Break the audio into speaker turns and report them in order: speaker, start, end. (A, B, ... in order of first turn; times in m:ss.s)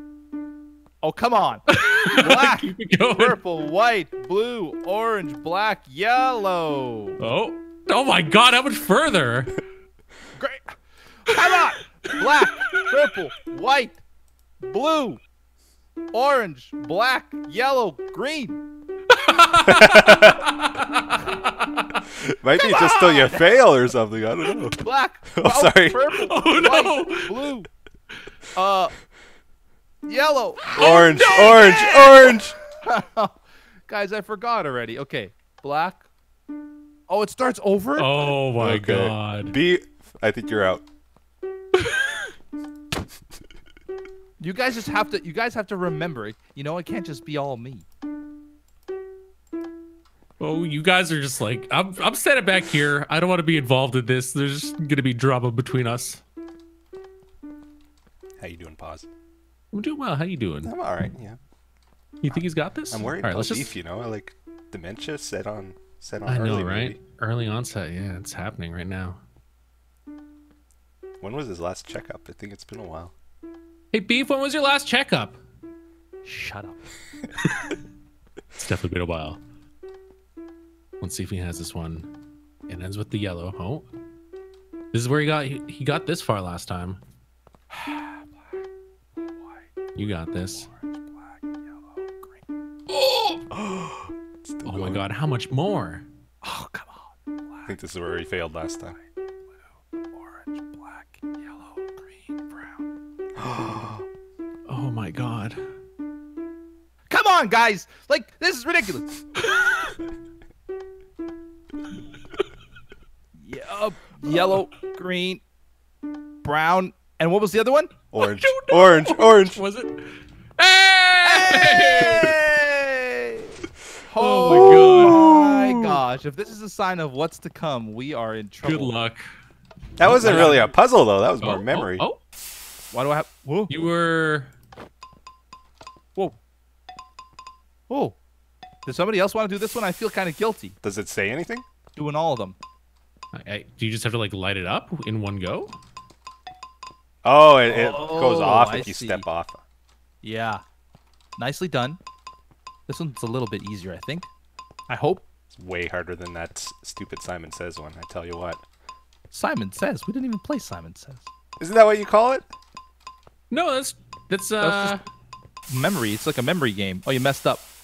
0:01.0-0:07.2 A
0:01.7-0:03.4 B
0:07.2-0:09.6 B
0:10.4-0:14.0 A
0:12.1-0:12.8 B
0:14.6-0:15.2 A
0:16.1-0:18.6 A
0:19.1-0:22.0 B
0:19.7-0:20.4 C
0:22.2-0:24.8 C
0:22.6-0:23.2 B
0:22.9-0:23.4 A
0:24.8-0:27.7 A
0:25.3-0:26.0 C
0:26.0-0:27.4 B
0:28.6-0:29.0 A
0:30.1-0:36.1 A
0:30.8-0:32.1 B
0:30.8-0:32.6 C
0:37.1-0:38.4 A
0:38.0-0:39.5 B
0:38.6-0:40.8 C
0:41.8-0:42.3 B
0:44.4-0:47.9 A
0:50.4-0:56.2 B
0:58.4-0:59.1 C
0:59.7-1:00.7 B
1:00.6-1:01.4 C
1:02.2-1:03.7 B
1:02.3-1:07.0 C
1:06.3-1:09.2 B
1:11.2-1:13.1 C
1:13.9-1:15.4 B
1:16.2-1:16.8 A
1:18.6-1:19.4 B
1:21.0-1:22.1 B
1:22.7-1:23.9 B
1:24.9-1:27.0 B
1:27.7-1:28.4 A
1:30.0-1:30.7 B
1:30.5-1:32.4 A
1:33.5-1:35.0 C
1:34.6-1:36.0 B
1:36.4-1:37.8 A
1:37.7-1:39.0 C
1:40.1-1:42.8 A
1:43.4-1:44.0 C
1:44.7-1:45.6 B
1:47.1-1:49.1 A
1:49.5-1:49.9 B
1:53.4-1:55.4 A
1:54.3-1:54.6 B
1:56.4-1:57.9 A
1:58.1-1:59.6 C
1:58.2-2:02.4 B
2:01.2-2:03.6 A
2:04.1-2:09.0 A
2:04.2-2:06.0 B
2:04.5-2:05.3 C
2:08.6-2:09.2 B
2:10.0-2:12.0 C
2:10.0-2:10.7 B
2:10.2-2:10.6 A
2:11.4-2:12.2 B
2:12.9-2:13.8 A
2:13.7-2:14.5 B
2:17.9-2:18.2 A
2:18.9-2:20.8 A
2:20.8-2:21.7 C
2:22.0-2:22.6 A
2:23.3-2:25.8 B
2:27.2-2:29.6 C
2:27.7-2:29.3 A
2:30.2-2:30.6 A
2:31.4-2:32.0 A
2:32.9-2:34.3 A
2:34.9-2:35.3 A
2:35.5-2:38.6 C
2:39.3-2:41.3 A
2:41.6-2:42.5 C
2:43.5-2:45.0 B
2:44.6-2:45.0 A
2:45.7-2:47.6 A